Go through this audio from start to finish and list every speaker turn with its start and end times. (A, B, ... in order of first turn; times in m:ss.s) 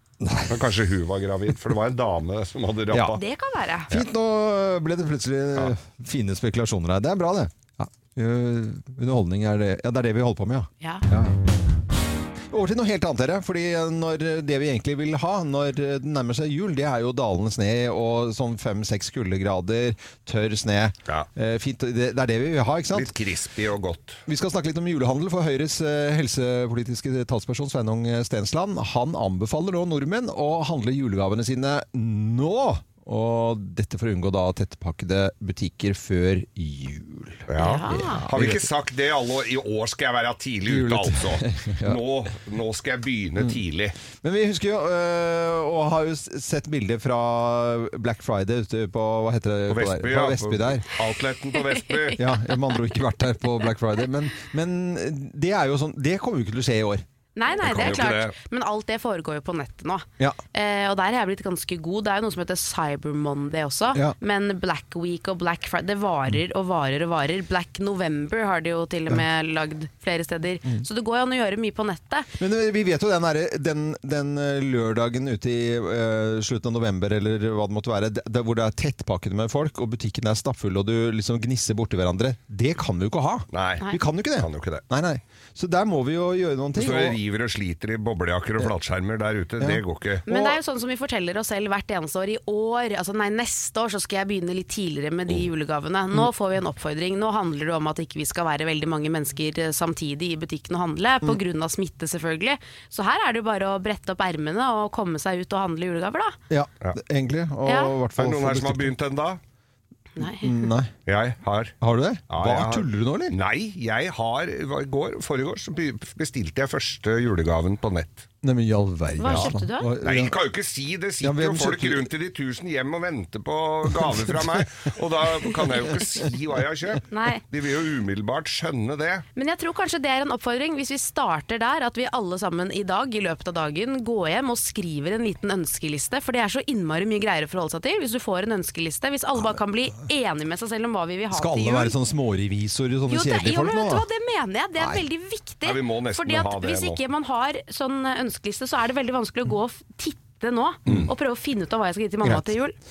0:00.2-0:00.7 A
0:00.5-0:03.2 B
0:02.9-0:03.2 A
0:03.1-0:03.9 C
0:03.9-0:11.4 A
0:12.5-0:23.1 A
0:22.9-0:24.2 B
0:24.3-0:38.7 A
0:37.5-0:44.0 B
0:37.6-0:38.2 C
0:40.7-0:42.0 A
0:44.2-0:50.8 A
0:49.7-0:52.2 B
0:52.2-0:57.0 A
0:57.4-1:12.3 C
0:57.6-0:58.3 B
0:57.7-0:57.9 A
1:12.4-1:27.2 A
1:23.5-1:24.8 B
1:26.8-1:30.2 B
1:29.6-1:30.6 A
1:30.3-1:46.4 C
1:46.5-1:48.9 A
1:47.6-1:48.0 C
1:48.2-1:49.4 B
1:50.2-1:50.7 C
1:50.2-1:50.9 A
1:51.1-1:51.7 B
1:51.8-1:53.4 A
1:52.3-1:58.3 B
1:58.4-2:00.4 A
1:59.2-1:59.9 C
2:00.0-2:09.2 B
2:01.2-2:02.1 A
2:07.1-2:07.4 C
2:09.4-2:21.9 C
2:21.3-2:24.0 A
2:23.1-2:32.8 C
2:24.8-2:25.0 A
2:25.6-2:27.0 B
2:32.2-2:32.5 A